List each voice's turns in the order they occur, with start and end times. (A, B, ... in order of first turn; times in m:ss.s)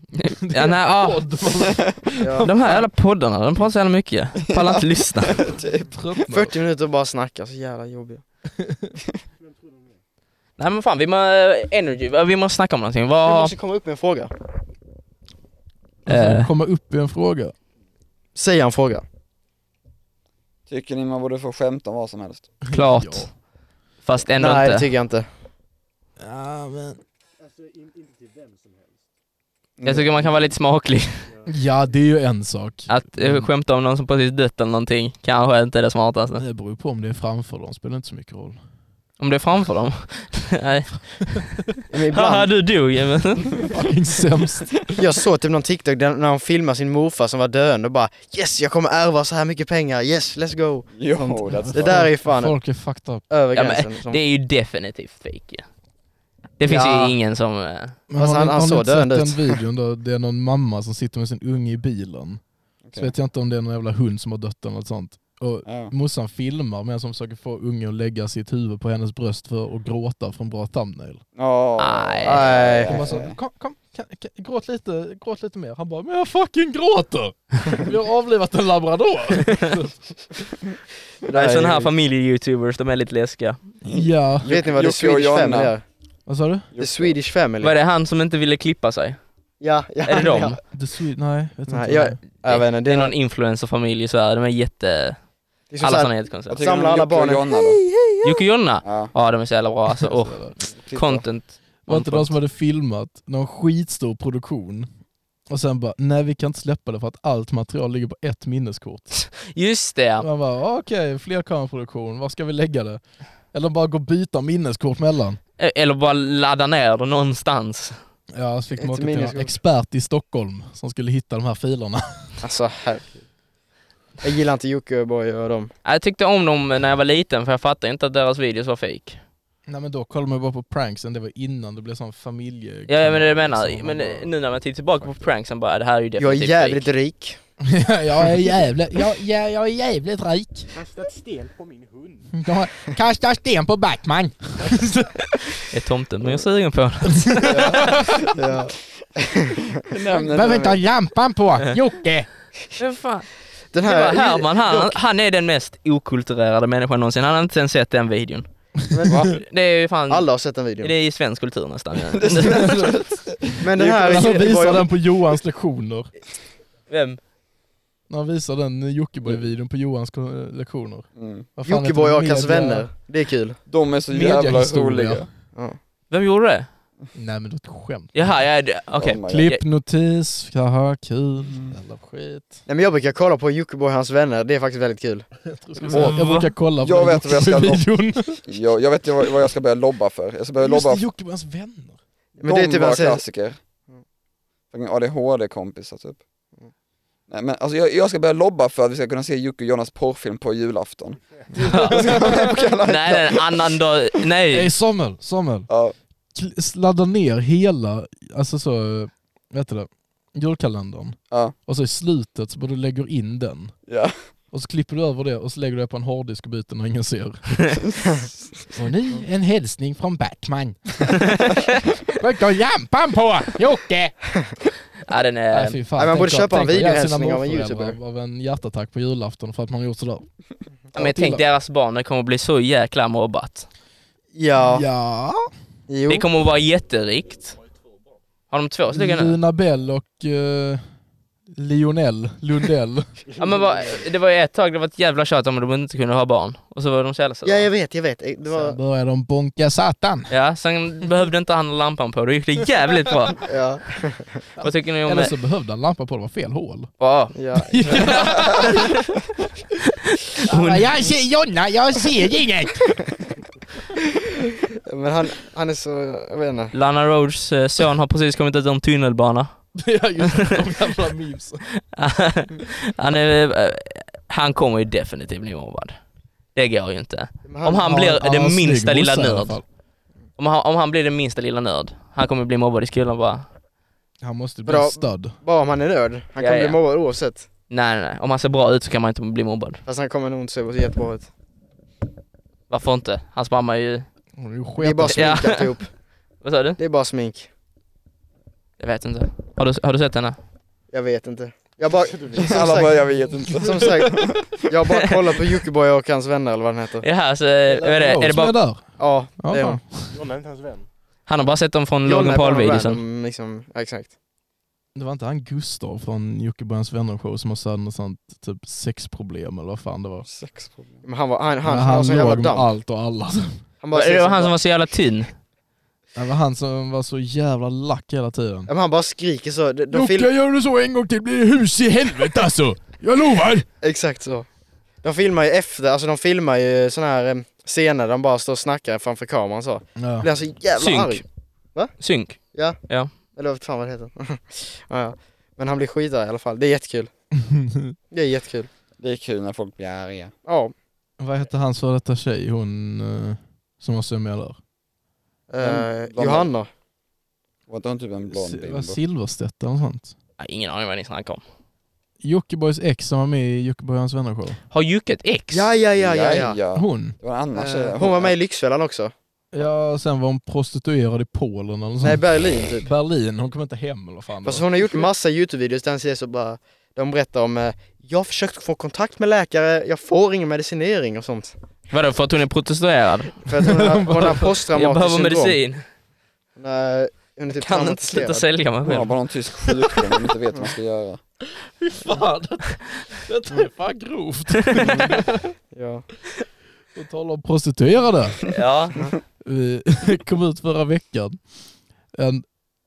0:00.2-0:01.3 A
0:00.3-0:02.8 B
0:01.6-0:02.0 C
0:02.2-0:02.5 D
0:02.4-0:05.4 A
0:04.5-0:06.3 C
0:05.9-0:06.5 B
0:06.3-0:08.2 D
0:08.6-0:08.9 B
0:09.4-0:10.0 E
0:10.6-0:13.6 A
0:13.2-0:14.3 D
0:16.1-0:16.5 A
0:16.1-0:17.5 B
0:18.4-0:19.0 D
0:20.7-0:22.5 C
0:22.6-0:23.3 B
0:22.7-0:23.4 A
0:24.0-0:24.9 A
0:24.4-0:25.3 D
0:26.2-0:27.0 B
0:27.4-0:29.0 E
0:29.8-0:30.6 C
0:29.8-0:31.3 A
0:31.2-0:31.5 E
0:31.5-0:33.5 B
0:32.9-0:36.4 A
0:36.4-0:38.6 B
0:39.2-0:43.7 A
0:41.9-0:42.5 D
0:43.7-0:45.0 B
0:45.0-0:52.6 D
0:50.9-0:52.1 C
0:51.5-0:53.3 B
0:53.3-0:54.2 D
0:53.6-0:55.6 A
0:56.6-0:58.0 A
0:56.6-0:57.2 D
0:58.1-1:02.4 B
0:58.2-0:59.6 D
1:02.8-1:03.1 C
1:03.0-1:11.2 B
1:05.7-1:05.9 C
1:11.4-1:13.4 C
1:11.8-1:12.6 A
1:12.2-1:13.0 D
1:12.8-1:20.0 B
1:21.2-1:21.9 D
1:21.3-1:23.6 A
1:23.8-1:24.5 B
1:23.9-1:25.8 C
1:24.5-1:25.8 D
1:26.3-1:26.7 B
1:26.7-1:27.2 C
1:26.8-1:27.7 D
1:27.6-1:29.2 A
1:29.6-1:30.6 D
1:30.0-1:30.6 A
1:30.7-1:32.2 B
1:31.7-1:33.1 D
1:32.4-1:35.2 A
1:35.7-1:38.4 D
1:35.8-1:36.7 A
1:36.5-1:37.8 C
1:38.2-1:42.3 A
1:38.8-1:39.1 C
1:40.0-1:40.6 B
1:40.8-1:41.3 C
1:41.9-1:44.9 B
1:45.5-1:49.3 B
1:49.3-1:50.3 A
1:50.2-1:55.4 B
1:55.6-1:58.0 A
1:58.3-2:02.4 B
1:58.8-1:59.5 D
2:02.4-2:03.0 D
2:04.2-2:05.7 D
2:05.8-2:09.2 A
2:09.7-2:14.3 B
2:12.9-2:16.9 A
2:15.0-2:15.3 B
2:16.2-2:17.4 D
2:17.6-2:20.7 B
2:20.7-2:22.4 E
2:22.3-2:25.5 B
2:25.7-2:27.5 A
2:27.1-2:28.2 B
2:27.5-2:29.7 D
2:29.8-2:30.8 C
2:30.2-2:32.3 B
2:32.8-2:33.3 A
2:33.7-2:34.9 D
2:33.8-2:38.5 A
2:38.9-2:39.4 D
2:39.2-2:40.3 A
2:40.1-2:40.9 D
2:40.8-2:42.8 A
2:42.1-2:44.4 C
2:42.4-2:42.9 B
2:43.6-2:44.9 D
2:44.0-2:46.1 B
2:46.9-2:47.2 A
2:48.1-2:52.9 B
2:51.2-2:51.5 C
2:51.7-2:53.6 D
2:53.7-2:55.3 C
2:54.1-2:55.3 B
2:56.1-2:56.7 A
2:57.2-2:58.3 B
2:58.1-2:59.6 A
2:59.0-2:59.5 C
2:59.3-3:02.6 B
3:01.4-3:01.8 C
3:02.7-3:05.3 D
3:05.5-3:08.4 B
3:05.9-3:06.5 A
3:06.8-3:11.0 C
3:10.6-3:12.0 B
3:12.4-3:13.2 D
3:12.4-3:13.6 C
3:14.7-3:16.2 C
3:17.3-3:23.9 C
3:21.2-3:21.6 E
3:21.6-3:22.4 B
3:21.6-3:24.7 A
3:24.5-3:25.7 B
3:25.7-3:26.0 C
3:26.3-3:33.7 B
3:31.3-3:31.6 C
3:33.9-3:34.2 C
3:34.5-3:37.8 B
3:38.7-3:41.3 B
3:41.3-3:41.7 A
3:42.1-3:44.2 B
3:45.1-3:45.8 A
3:45.5-3:50.3 B
3:46.0-3:48.0 D
3:50.9-3:51.4 B
3:51.0-3:53.7 A
3:54.4-3:54.9 D
3:54.6-3:55.5 B
3:55.9-3:56.3 D
3:56.1-3:57.6 A
3:58.5-3:59.4 A
3:58.9-4:00.8 B
4:01.5-4:03.1 B
4:03.3-4:04.1 E
4:03.4-4:07.7 A
4:07.4-4:08.8 D
4:08.4-4:10.3 B
4:10.3-4:13.4 A
4:13.4-4:14.4 D
4:14.6-4:16.9 B
4:14.6-4:15.3 A
4:17.0-4:19.1 A
4:17.3-4:18.5 D
4:17.6-4:19.0 B
4:20.4-4:20.9 A
4:20.5-4:23.0 B
4:24.9-4:26.7 D
4:26.7-4:29.5 A
4:29.8-4:31.6 B
4:31.9-4:36.0 A
4:36.6-4:39.6 A
4:37.5-4:37.9 D
4:37.8-4:39.6 B
4:40.4-4:43.5 A
4:44.2-4:45.4 B
4:44.7-4:47.5 D
4:46.4-4:46.8 A
4:47.7-4:49.8 A
4:49.9-4:51.3 D
4:52.7-4:54.1 A
4:54.4-4:55.4 B
4:54.8-4:55.9 D
4:55.1-4:55.7 A
4:56.4-4:56.8 A
4:56.8-4:57.5 D
4:58.8-5:00.4 A
5:00.9-5:03.0 D
5:02.0-5:02.8 E
5:02.4-5:04.6 C
5:03.6-5:07.0 D
5:07.0-5:08.6 A
5:07.7-5:10.2 B
5:09.0-5:09.8 D
5:10.1-5:10.9 E
5:11.3-5:13.0 A
5:12.0-5:14.1 D
5:15.0-5:20.3 B
5:20.2-5:21.0 C
5:21.0-5:22.7 D
5:21.6-5:23.5 B
5:23.8-5:24.6 D
5:23.9-5:25.3 A
5:26.2-5:28.7 B
5:28.7-5:30.3 D
5:29.9-5:33.7 B
5:33.8-5:34.5 D
5:35.0-5:41.2 D
5:40.0-5:40.3 B
5:40.8-5:41.2 A
5:42.0-5:43.1 A
5:43.3-5:47.1 D
5:47.4-5:47.9 B
5:48.1-5:48.7 D
5:49.0-5:50.3 C
5:50.5-5:50.7 D
5:51.2-5:54.6 B
5:55.5-5:56.7 D
5:55.6-5:56.5 C
5:57.7-5:59.0 C
5:58.3-6:00.2 B
6:00.4-6:01.4 A
6:02.2-6:04.6 B
6:04.7-6:05.7 A
6:05.5-6:06.6 D
6:06.0-6:08.4 C
6:06.7-6:07.2 B
6:07.6-6:09.1 D
6:09.5-6:12.2 B
6:12.0-6:12.9 D
6:12.8-6:15.0 B
6:14.4-6:21.6 D
6:21.9-6:23.5 A
6:23.5-6:25.6 D
6:23.6-6:24.5 B
6:24.7-6:25.8 A
6:26.6-6:28.5 D
6:27.5-6:29.1 A
6:28.8-6:31.2 C
6:31.7-6:35.5 B
6:35.7-6:36.1 D
6:37.0-6:38.5 B
6:38.5-6:39.1 A
6:39.4-6:41.4 B
6:42.2-6:42.4 B